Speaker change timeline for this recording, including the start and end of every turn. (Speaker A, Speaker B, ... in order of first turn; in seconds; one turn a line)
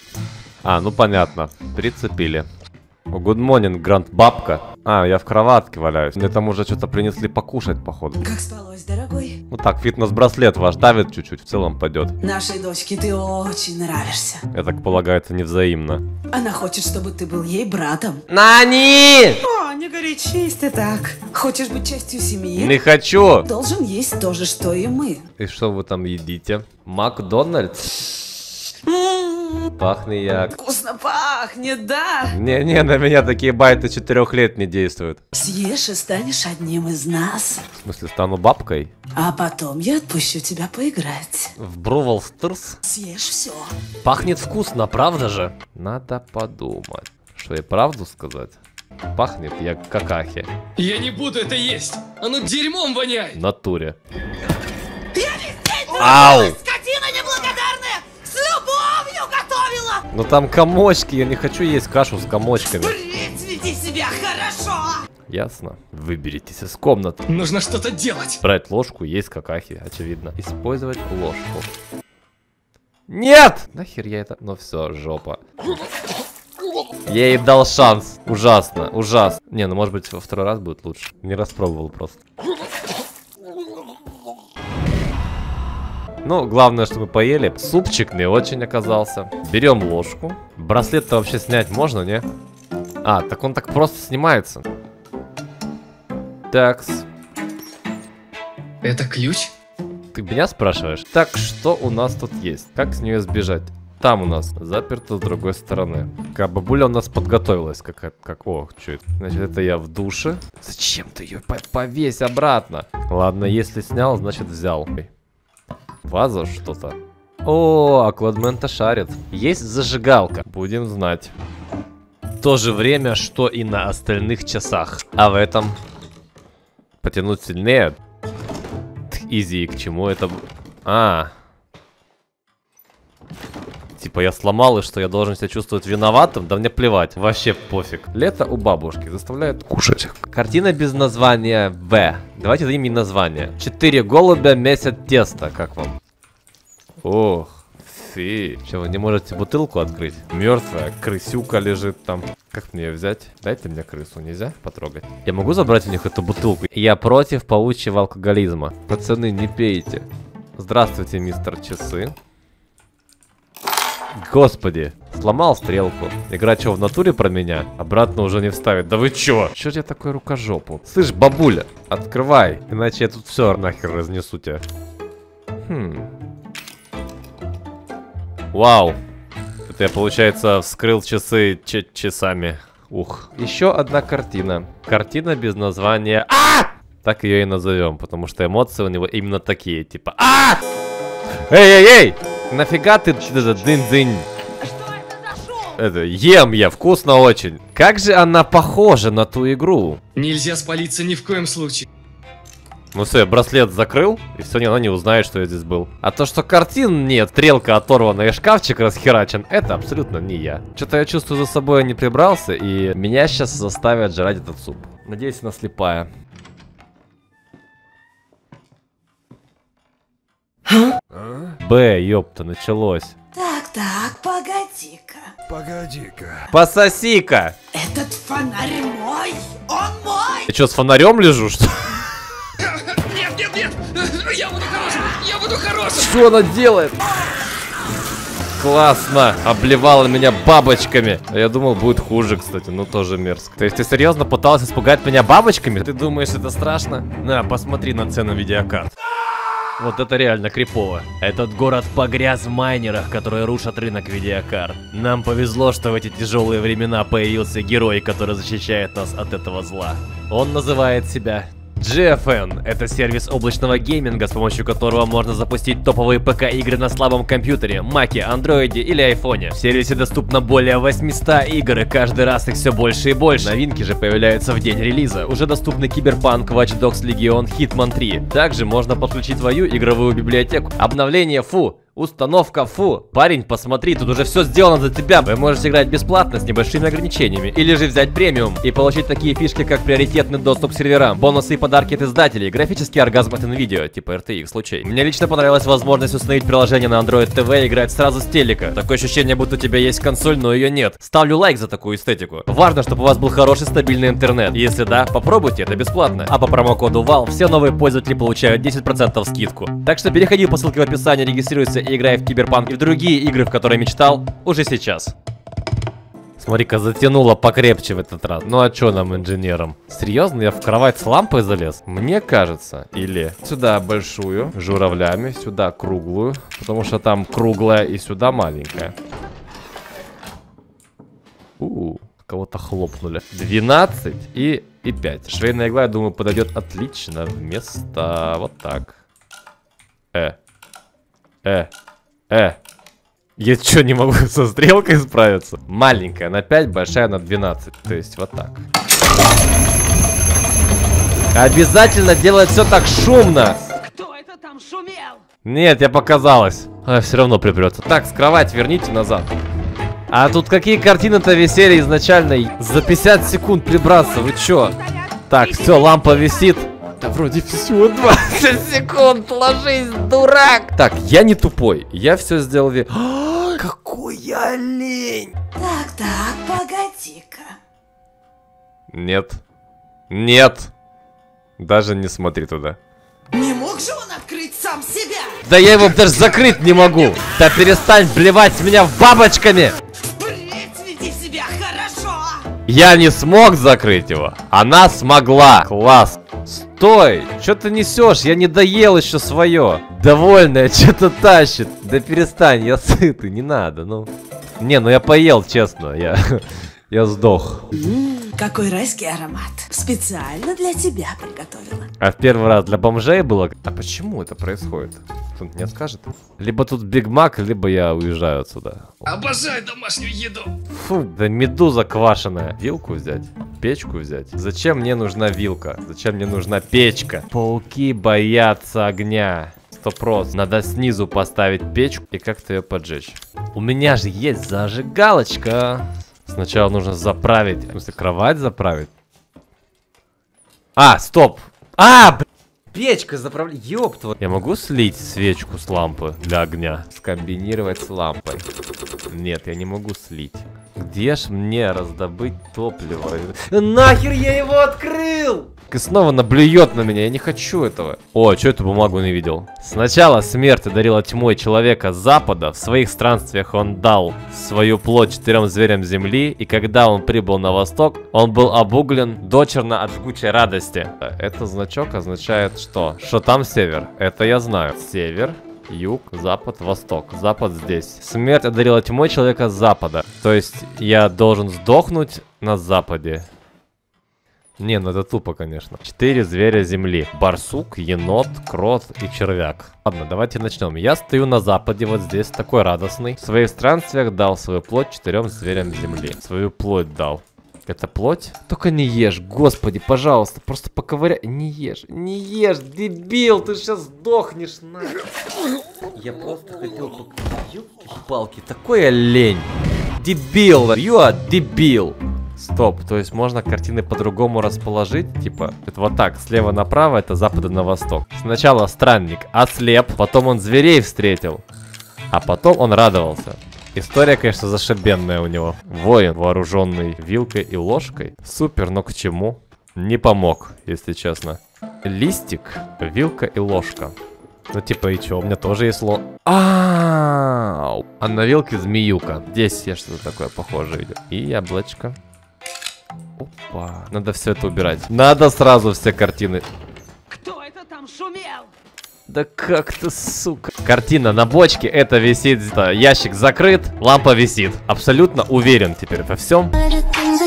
Speaker A: 0.6-2.5
Speaker A: 3.1-8.2
Speaker B: 8.2-9.4
Speaker A: 9.5-12.2
Speaker B: 12.2-14.4
Speaker A: 14.5-16.0
Speaker B: 16.3-18.2
Speaker A: 18.3-19.4
Speaker B: 19.4-22.8
Speaker A: 22.6-23.5
Speaker B: 23.4-25.2
Speaker A: 25.4-28.1
Speaker B: 28.8-29.7
Speaker A: 29.7-30.5
Speaker B: 30.5-32.4
Speaker A: 32.3-35.2
Speaker B: 35.3-37.6
Speaker A: 37.7-38.9
Speaker B: 39.1-41.5
Speaker A: 41.5-42.8
Speaker B: 42.8-43.7
Speaker A: 44.0-48.6
Speaker A: 49.1-50.5
Speaker C: 50.8-53.4
Speaker A: 53.3-54.0
Speaker B: 55.1-60.0
Speaker A: 55.9-56.6
Speaker A: 60.1-63.0
Speaker B: 62.7-65.0
Speaker A: 65.3-67.4
Speaker C: 67.3-68.4
Speaker A: 68.4-71.7
Speaker A: 73.1-75.4
Speaker A: 77.1-82.2
Speaker A: 86.2-92.2
Speaker A: 93.0-94.7
Speaker A: 96.5-97.1
Speaker C: 98.8-99.5
Speaker A: 100.1-115.1
Speaker A: 116.0-121.3
Speaker A: 122.4-125.8
Speaker A: 127.0-128.0
Speaker A: 129.1-131.3
Speaker A: 134.0-145.9
Speaker A: 147.0-162.2
Speaker A: 164.2-174.6
Speaker A: 175.6-176.1
Speaker A: 178.5-179.0
Speaker A: 179.7-190.6
Speaker A: 191.4-194.3
Speaker B: 194.6-195.8
Speaker A: 195.6-200.0
Speaker C: 200.1-201.9
Speaker A: 202.9-216.1
Speaker A: 221.2-223.2
Speaker B: 223.3-225.3
Speaker A: 225.5-227.6
Speaker B: 227.7-230.5
Speaker A: 230.5-232.0
Speaker C: 232.6-236.1
Speaker A: 235.9-237.0
Speaker A: 238.6-248.9
Speaker A: 249.8-315.1
Speaker A: 316.4-328.9
Speaker A: 331.6-339.0
Speaker A: 341.4-341.7
Speaker A: 342.3-342.6
Speaker A: 343.4-348.6
Speaker A: 351.3-353.7
Speaker B: 353.8-355.2
Speaker A: 355.4-359.3
Speaker A: 360.1-375.3
Speaker B: 364.3-366.1
Speaker B: 375.6-377.6
Speaker A: 378.9-379.4
Speaker A: 380.1-380.7
Speaker A: 381.6-382.8
Speaker B: 383.3-385.4
Speaker A: 385.4-389.8
Speaker B: 390.1-392.6
Speaker A: 392.6-407.7
Speaker B: 407.7-411.9
Speaker A: 412.0-419.1
Speaker C: 419.1-420.5
Speaker A: 420.7-438.9
Speaker A: 440.8-448.5
Speaker A: 449.1-483.3
Speaker A: 484.6-505.0
Speaker A: 505.9-521.4
Speaker A: 522.1-533.9
Speaker A: 534.5-542.0
Speaker A: 543.2-546.5
Speaker B: 547.1-548.5
Speaker A: 549.1-556.5